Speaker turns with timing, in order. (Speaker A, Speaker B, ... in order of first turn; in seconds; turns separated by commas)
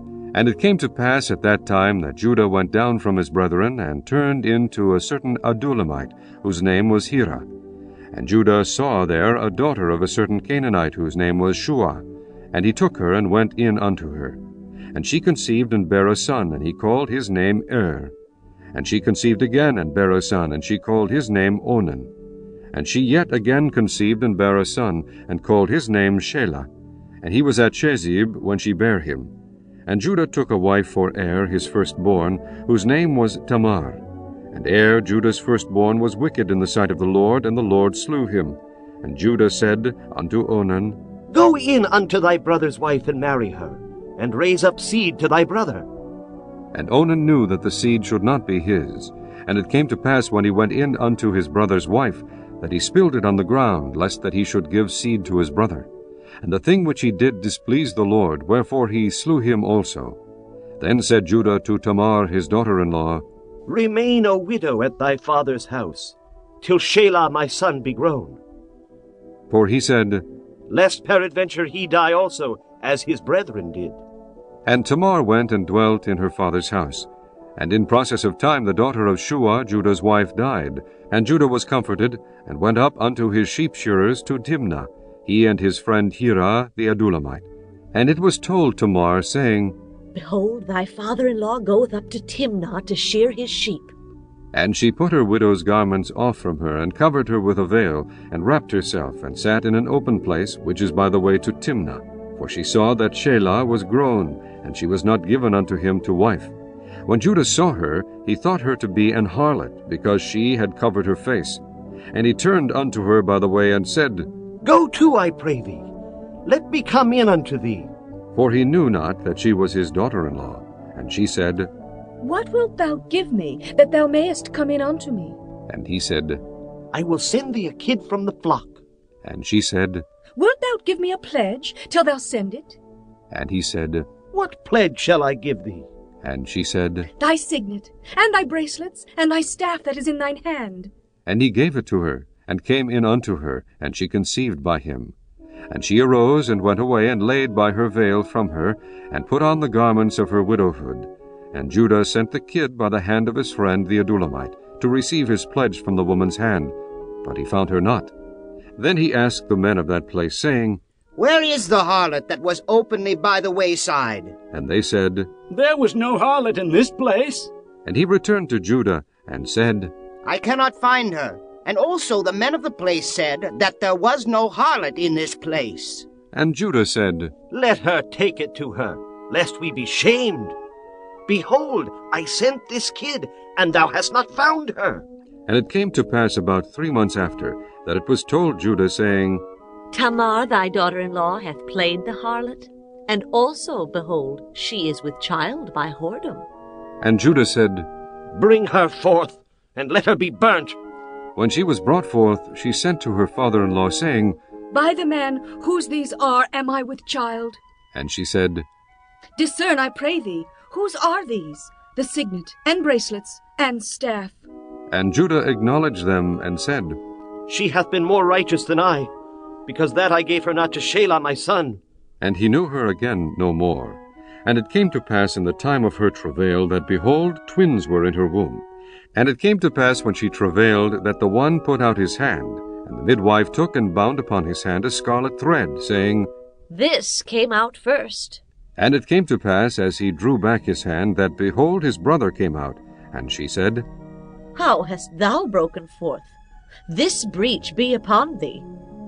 Speaker A: 0.3-7.4, Speaker A: 8.1-14.4, Speaker A: 14.9-18.1, Speaker A: 18.7-22.1, Speaker A: 22.7-26.7, Speaker A: 27.2-29.3, Speaker A: 29.9-41.0, Speaker B: 41.3-45.9, Speaker A: 46.7-55.9, Speaker A: 56.4-60.2, Speaker A: 60.8-63.2, Speaker B: 63.7-68.4, Speaker A: 69.5-70.2, Speaker B: 70.7-74.0, Speaker A: 74.7-89.7, Speaker C: 90.1-93.9, Speaker A: 94.5-106.5, Speaker A: 107.1-111.6, Speaker A: 112.1-114.3, Speaker B: 114.6-115.9, Speaker B: 116.4-117.9, Speaker A: 118.3-121.7, Speaker D: 122.2-125.4, Speaker A: 125.7-126.4, Speaker B: 126.9-128.8, Speaker A: 129.2-130.0, Speaker D: 130.3-132.8, Speaker A: 133.3-134.1, Speaker B: 134.3-135.9, Speaker A: 136.2-137.1, Speaker D: 137.2-140.9, Speaker A: 141.2-145.1, Speaker A: 145.7-158.1, Speaker A: 158.8-160.8, Speaker E: 161.2-164.3, Speaker A: 164.5-165.3, Speaker F: 165.5-167.5, Speaker A: 167.8-169.9, Speaker E: 170.2-176.1, Speaker A: 176.3-177.3, Speaker B: 177.5-180.6, Speaker B: 181.3-185.0, Speaker A: 185.5-189.4, Speaker C: 189.9-196.4, Speaker A: 197.0-197.8, Speaker B: 198.3-200.8, Speaker A: 201.3-204.4, Speaker D: 204.7-207.6, Speaker A: 207.9-208.6, Speaker D: 209.4-214.4, Speaker A: 214.9-217.0, Speaker B: 217.5-219.1, Speaker B: 219.7-221.8, Speaker A: 222.2-228.6, Speaker A: 229.1-236.3, Speaker C: 236.7-238.4, Speaker A: 238.8-243.8, Speaker C: 244.5-246.3, Speaker C: 246.9-248.6